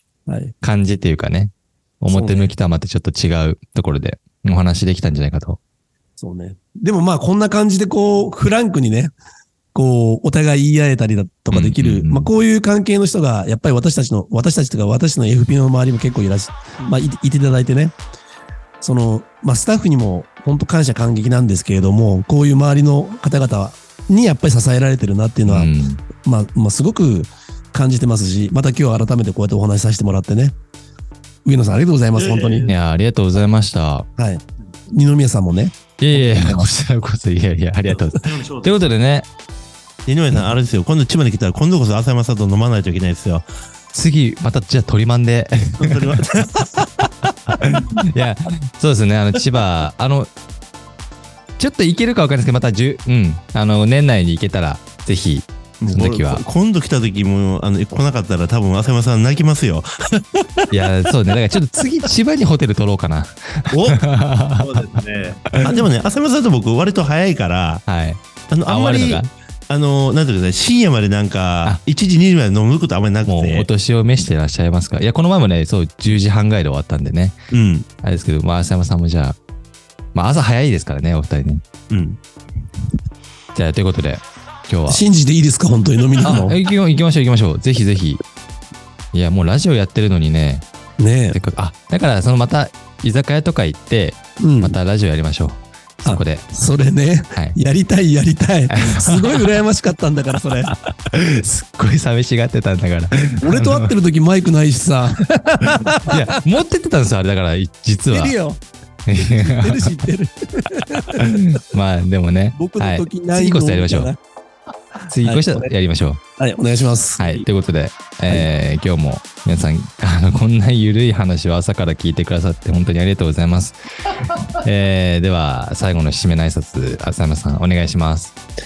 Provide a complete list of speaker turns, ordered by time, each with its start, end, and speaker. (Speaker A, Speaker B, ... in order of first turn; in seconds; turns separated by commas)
Speaker A: 0.3-0.5, Speaker B: 0.6-5.6, Speaker A: 2.1-2.5, Speaker A: 6.2-9.1, Speaker A: 9.7-17.9, Speaker B: 11.5-12.3, Speaker A: 18.8-25.7, Speaker B: 25.5-26.0, Speaker A: 26.2-30.6, Speaker A: 31.4-32.7, Speaker C: 32.2-32.7, Speaker B: 32.7-34.1, Speaker A: 34.2-36.7, Speaker B: 36.0-39.3, Speaker C: 37.9-38.9, Speaker C: 40.1-43.5, Speaker B: 43.9-46.0, Speaker C: 45.8-47.1, Speaker B: 47.6-50.3, Speaker B: 51.6-56.4, Speaker C: 55.8-60.7, Speaker B: 60.7-64.8, Speaker C: 63.7-64.0, Speaker C: 64.6-67.9, Speaker B: 67.9-69.3, Speaker C: 68.5-73.7, Speaker B: 73.3-77.4, Speaker C: 77.5-77.9, Speaker B: 78.0-79.4, Speaker B: 80.2-81.6, Speaker C: 81.9-82.2, Speaker B: 83.5-85.0, Speaker A: 84.9-86.6, Speaker B: 86.2-88.2, Speaker B: 89.1-90.6, Speaker A: 91.0-91.4, Speaker B: 91.3-96.5, Speaker A: 94.4-94.8, Speaker A: 96.0-100.7, Speaker B: 98.7-99.6, Speaker B: 100.7-103.9, Speaker A: 103.4-106.4, Speaker B: 106.1-108.3, Speaker A: 108.1-108.6, Speaker B: 109.1-109.9, Speaker A: 109.2-111.2, Speaker B: 111.0-114.1, Speaker A: 112.5-114.2, Speaker B: 115.1-116.2, Speaker A: 115.2-115.7, Speaker A: 116.4-117.5, Speaker B: 117.2-123.8, Speaker B: 124.5-128.3